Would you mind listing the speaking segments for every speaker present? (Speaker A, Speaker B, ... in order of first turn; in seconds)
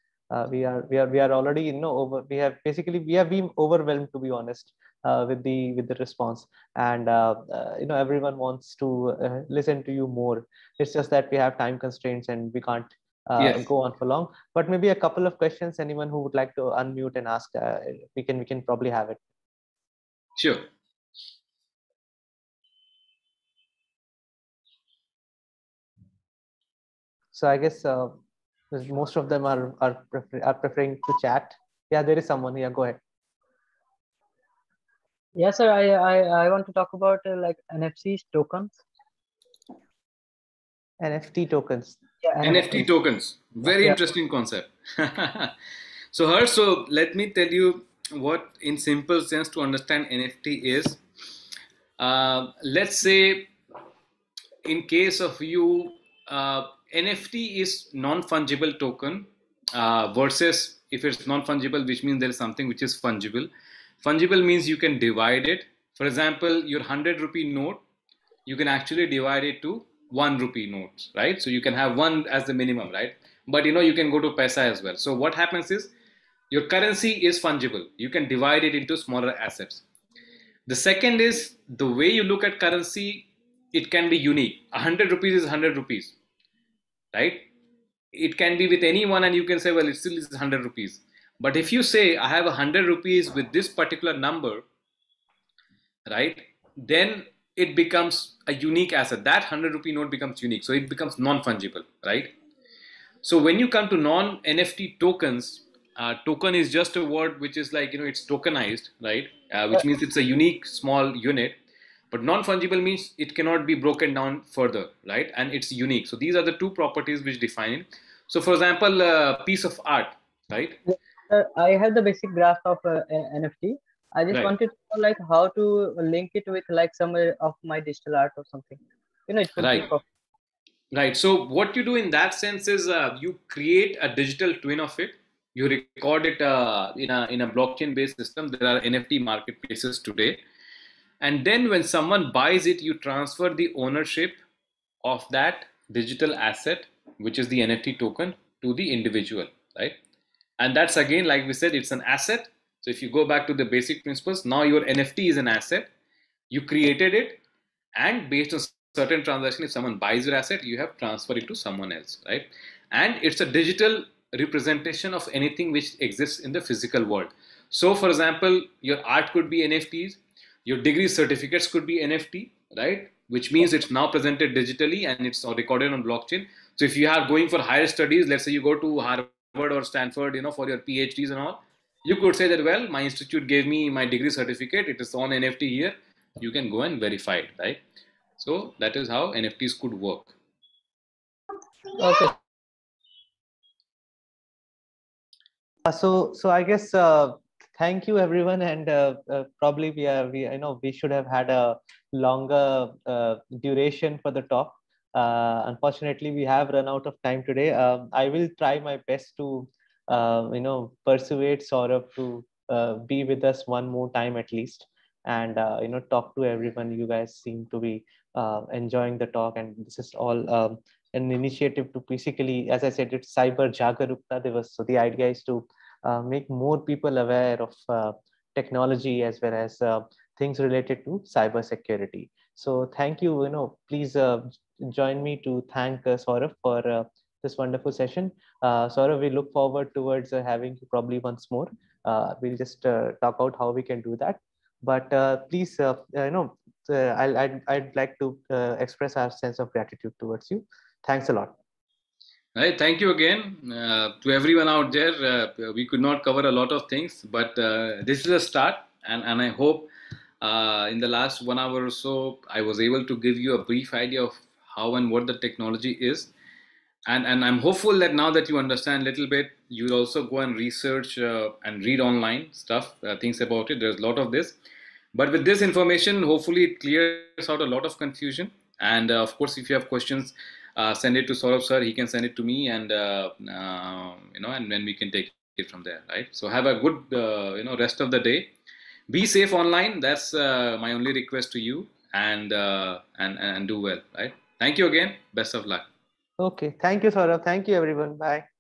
Speaker A: 0.3-19.2, 27.3-28.2, 28.7-33.0, 41.0-42.9, 43.7-44.0, 195.8-251.6, 296.4-298.5
Speaker B: 13.4-13.6, 20.4-20.7, 42.4-45.5, 46.1-51.0, 52.0-53.5, 54.6-63.5, 64.0-67.8, 68.5-75.9, 76.5-79.8, 80.7-86.1, 87.1-87.5, 88.1-94.6, 96.1-102.3, 103.2-111.6, 112.1-120.8, 129.6-129.9, 130.9-140.4, 141.2-144.4, 145.0-150.0, 150.6-155.9, 156.5-157.4, 157.9-187.8, 188.4-190.3, 252.6-259.9, 260.4-266.3, 267.1-274.6, 275.1-288.5, 289.1-295.9
Speaker C: 35.4-38.8, 42.2-42.6, 120.9-130.0, 192.0-192.3